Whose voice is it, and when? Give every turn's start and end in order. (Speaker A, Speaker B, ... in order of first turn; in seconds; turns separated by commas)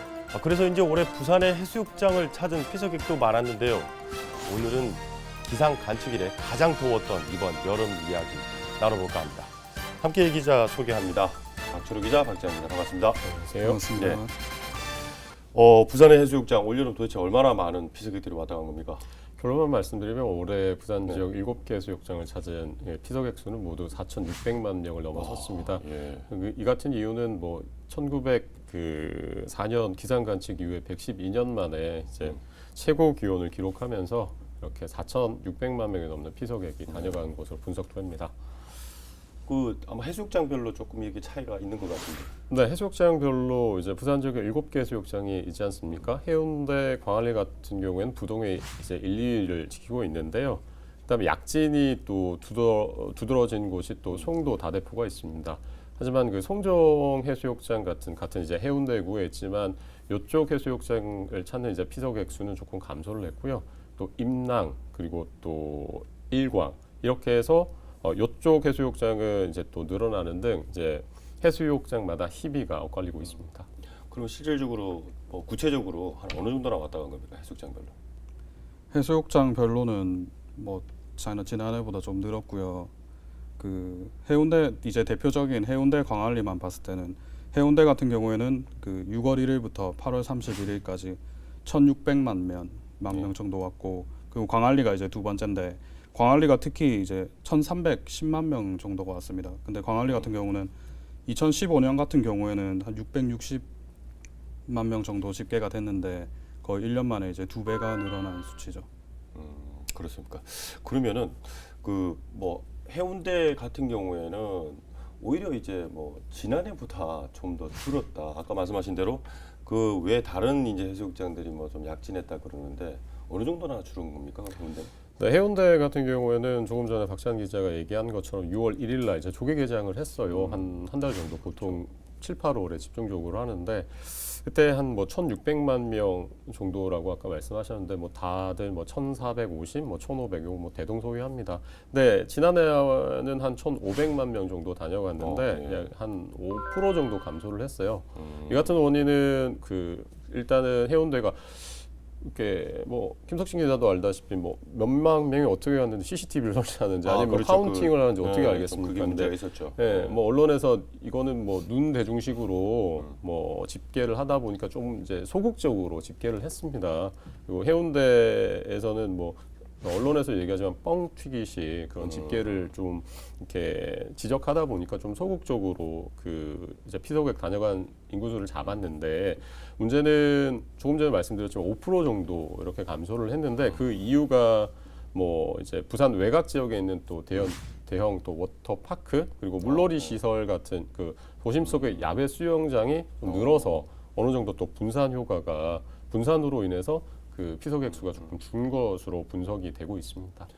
Speaker A: 0.3-13.2, Speaker B: 13.2-13.8, Speaker C: 13.6-14.3, Speaker A: 13.9-14.2, Speaker A: 15.5-19.0, Speaker B: 19.4-38.3, Speaker A: 25.1-26.3, Speaker A: 39.5-42.3, Speaker B: 42.5-73.7, Speaker A: 74.1-77.9, Speaker C: 78.9-82.9, Speaker C: 83.6-100.7, Speaker C: 101.2-103.7, Speaker C: 104.7-108.9, Speaker A: 109.3-124.9, Speaker B: 125.2-200.5, Speaker A: 130.3-130.7, Speaker A: 145.2-145.9, Speaker A: 148.2-148.8, Speaker A: 157.0-160.2, Speaker A: 172.0-172.5, Speaker A: 189.6-190.2, Speaker A: 193.2-193.8